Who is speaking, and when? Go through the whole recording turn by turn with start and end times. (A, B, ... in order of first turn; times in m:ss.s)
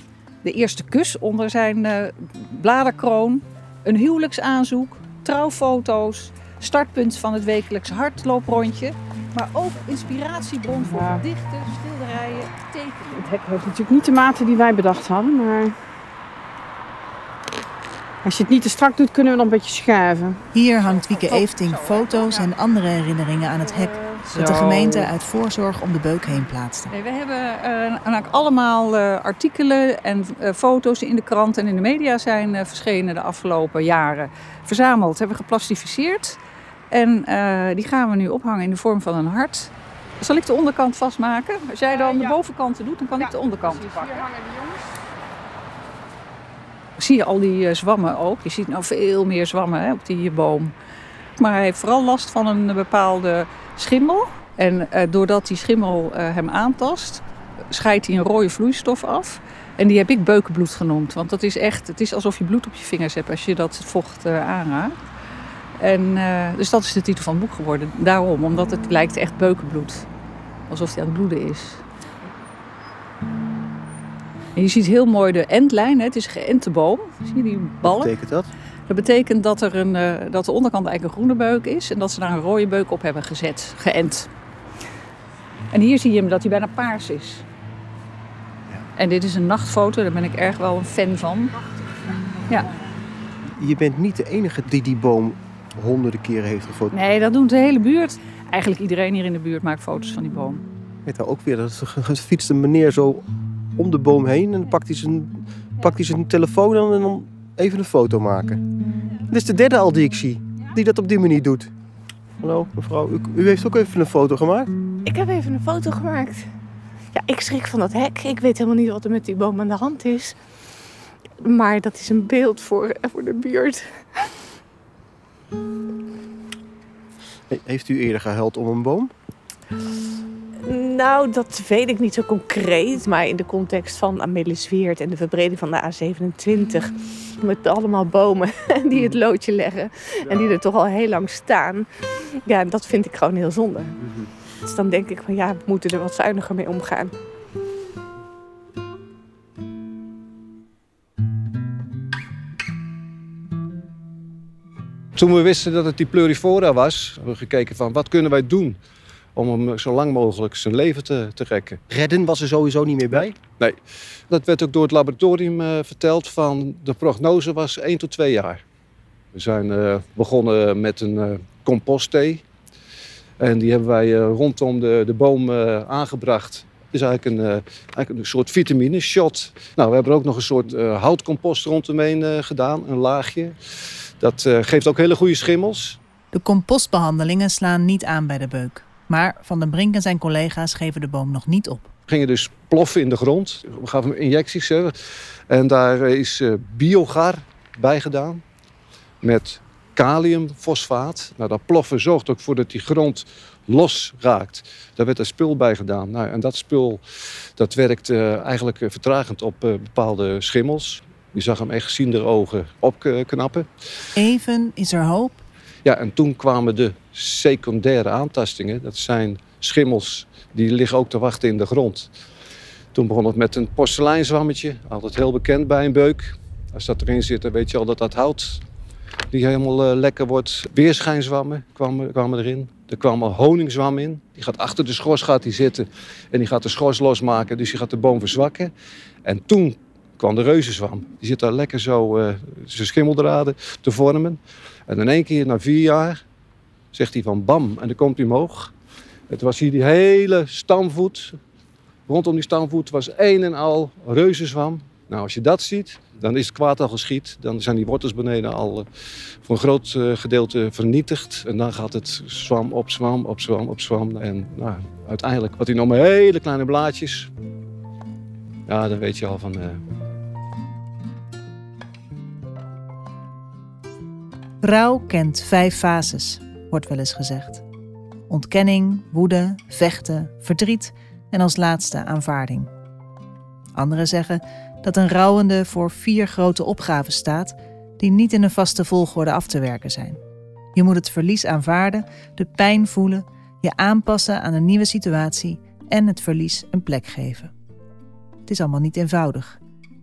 0:00.4-0:13.4 A
0:10.9-0:11.2 B
0:13.3-0:15.8 B
0:18.2-0:20.4 B
0:20.5-0:26.9 C
0:24.3-0:25.0 B
0:26.9-0:36.4 A
0:36.9-0:44.3 A
0:43.8-0:44.8 B
0:47.0-0:50.7 A
0:51.4-1:04.9 A
1:05.8-1:10.1 A
1:10.7-1:11.8 A
1:14.6-1:18.1 A
1:17.9-1:18.5 D
1:18.9-1:24.3 A
1:25.7-1:27.4 A
1:29.0-1:31.6 A
1:33.6-1:36.9 D
1:36.9-1:40.6 A
1:41.0-1:43.2 D
1:43.8-1:48.6 D
1:49.3-1:51.7 D
1:52.4-1:54.7 D
1:55.0-1:56.5 E
1:57.1-2:00.4 E
2:01.4-2:04.2 E
2:07.5-2:09.1 D
2:10.6-2:21.9 E
2:22.5-2:24.0 E
2:24.0-2:24.3 D
2:24.6-2:27.1 E
2:35.2-2:38.8 F
2:39.4-2:41.8 F
2:41.9-2:43.4 D
2:43.1-2:43.8 F
2:44.3-2:48.6 F
2:49.3-2:52.4 F
2:53.4-3:03.6 F
3:04.2-3:06.0 F
3:06.3-3:11.9 C
3:12.1-3:15.0 F
3:15.5-3:18.4 F
3:19.2-3:27.0 F
3:27.6-3:33.7 F
3:34.2-3:35.4 C
3:35.8-3:42.1 F
3:42.9-3:48.6 F
3:49.3-3:58.7 F
3:59.2-4:06.2 F
4:06.9-4:08.7 F
4:09.3-4:11.4 F
4:12.1-4:18.9 F
4:19.4-4:27.3 F
4:28.7-4:29.8 F
4:34.6-4:37.6 C
4:38.3-4:42.7 C
4:43.8-4:50.2 C
4:50.7-4:57.5 C
4:58.5-4:59.6 C